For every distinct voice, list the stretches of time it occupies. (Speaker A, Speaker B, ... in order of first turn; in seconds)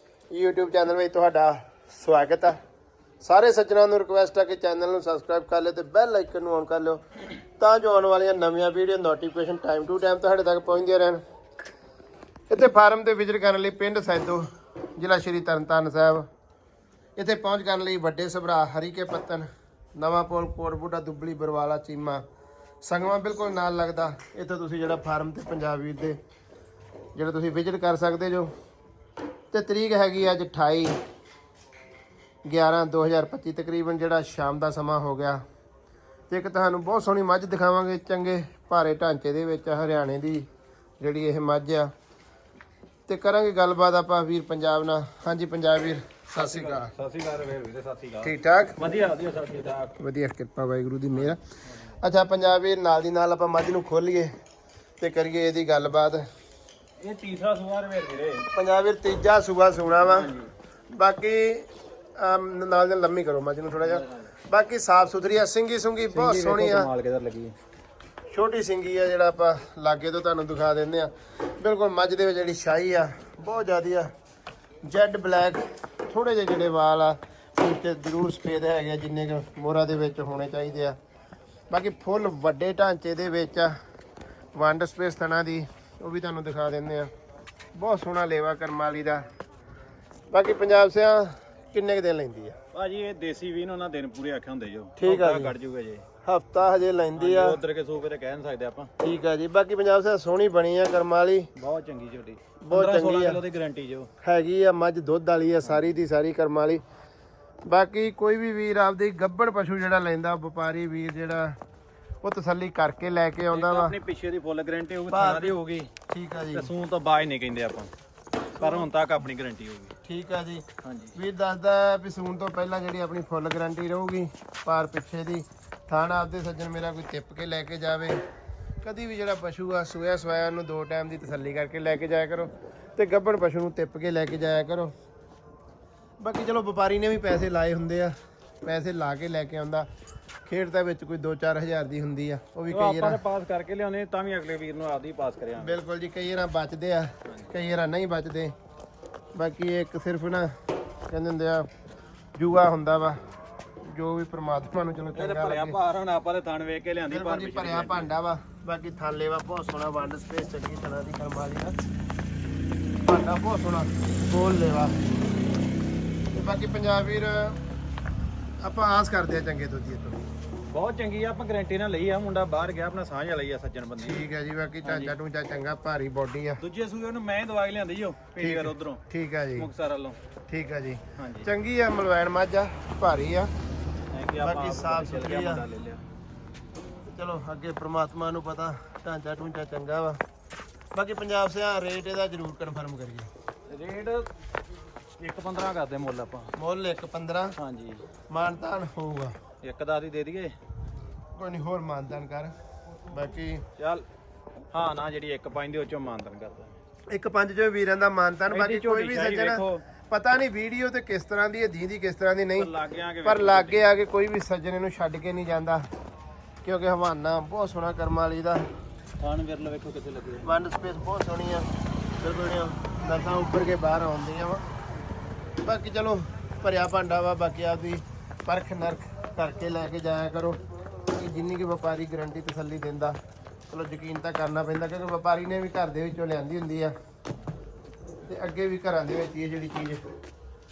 Speaker A: 0.3-2.6, 3.2-7.0, 7.6-11.2, 12.5-16.3, 17.2-22.2, 22.8-26.2, 27.2-28.5, 29.5-30.9, 32.5-35.4, 36.3-40.5, 41.0-41.9, 43.1-46.9, 48.2-48.8, 50.0-51.4, 52.0-54.3, 55.0-56.2, 58.5-60.3, 60.9-66.9, 68.3-74.1, 74.8-81.0, 81.7-83.8, 84.5-87.1, 87.8-89.2, 90.3-92.6, 95.0-95.5, 96.2-97.6, 99.0-101.5, 102.6-103.4, 104.2-106.8, 107.7-111.6, 112.2-114.0, 115.1-115.5, 116.1-116.7, 118.6-118.9, 120.0-120.7, 121.2-128.2, 128.8-134.9, 136.2-139.9, 140.5-143.2, 145.6-148.5, 149.3-150.5, 151.1-151.7, 152.4-153.2, 153.8-155.8, 157.1-161.8, 163.0-165.1, 166.3-167.6, 168.6-170.2, 174.0-176.6, 178.4-179.7, 180.5-183.5, 184.4-185.7, 187.1-190.2, 190.9-193.3, 196.6-197.6, 198.3-199.3, 201.3-202.5, 203.1-203.7, 207.1-212.7, 213.2-215.8, 216.6-218.7, 220.4-221.7, 222.2-224.6, 225.6-233.2, 233.7-236.9, 238.3-240.0
Speaker B: 46.4-49.9, 57.0-58.5, 60.0-60.5, 63.9-64.2, 66.1-67.5, 92.7-96.0, 97.2-98.9, 101.6-104.1, 113.5-115.9, 116.5-117.9, 118.6-119.9, 120.8-121.2, 142.7-145.8, 155.2-158.1, 170.7-174.2, 174.8-175.2, 176.6-179.0, 179.6-180.2, 181.2-181.5, 184.1-186.0, 193.7-194.3, 195.2-196.5, 197.6-198.0, 199.6-200.6, 203.8-204.1, 204.7-206.8, 208.5-209.8, 212.6-213.8, 219.2-220.5